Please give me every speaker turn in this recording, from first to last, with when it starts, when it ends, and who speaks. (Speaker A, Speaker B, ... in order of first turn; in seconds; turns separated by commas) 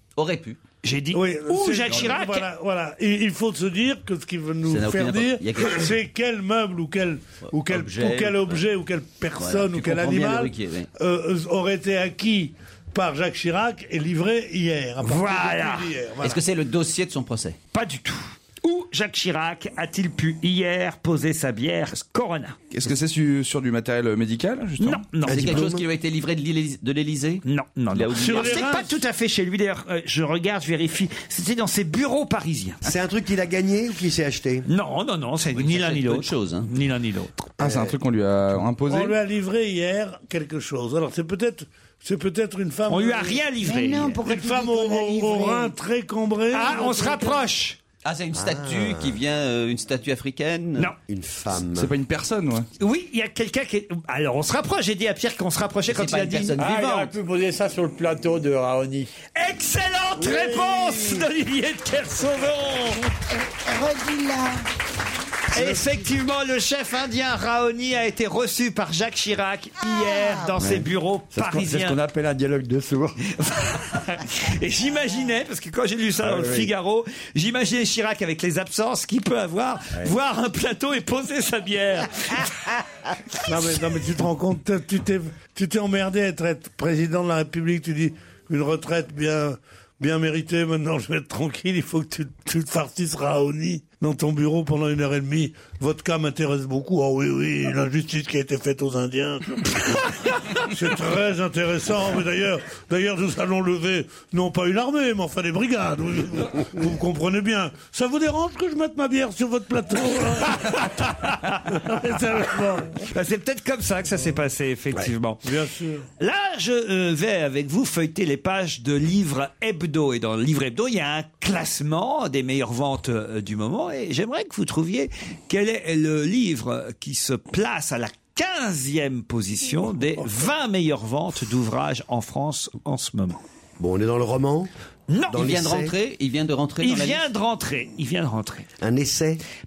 Speaker A: 0.2-0.6, Speaker B: 0.8-2.5, Speaker C: 1.1-16.4, Speaker A: 4.7-5.9, Speaker A: 7.4-8.6, Speaker A: 9.3-10.9, Speaker B: 15.0-15.9, Speaker A: 16.2-17.6, Speaker B: 17.7-22.6, Speaker D: 22.7-25.0, Speaker B: 24.8-25.7, Speaker E: 25.2-25.8, Speaker A: 25.3-28.8, Speaker B: 27.4-32.8, Speaker C: 28.1-28.9, Speaker E: 32.8-34.7, Speaker B: 34.6-37.4, Speaker A: 35.5-36.7, Speaker D: 37.6-39.2, Speaker E: 37.6-38.0, Speaker C: 38.8-43.5, Speaker B: 42.9-44.2, Speaker F: 43.6-45.7, Speaker C: 44.2-47.4, Speaker B: 46.5-47.8, Speaker A: 48.0-50.9, Speaker E: 48.3-49.2, Speaker E: 51.0-51.9, Speaker D: 51.7-52.6, Speaker B: 52.8-56.6, Speaker A: 55.9-57.1, Speaker G: 56.5-59.1, Speaker B: 59.4-63.0, Speaker C: 60.3-61.2, Speaker F: 62.9-64.6, Speaker B: 65.5-72.0, Speaker F: 69.8-70.6, Speaker G: 70.6-73.2, Speaker B: 73.4-82.5, Speaker G: 76.2-76.7, Speaker C: 83.4-99.9, Speaker C: 100.7-111.1, Speaker B: 110.7-111.6, Speaker C: 111.7-113.0, Speaker B: 113.1-115.4, Speaker C: 115.4-116.0, Speaker B: 116.2-133.4, Speaker E: 133.8-134.7, Speaker B: 135.1-135.6, Speaker E: 135.3-135.9, Speaker A: 135.3-137.2, Speaker B: 136.8-138.7, Speaker E: 138.8-139.4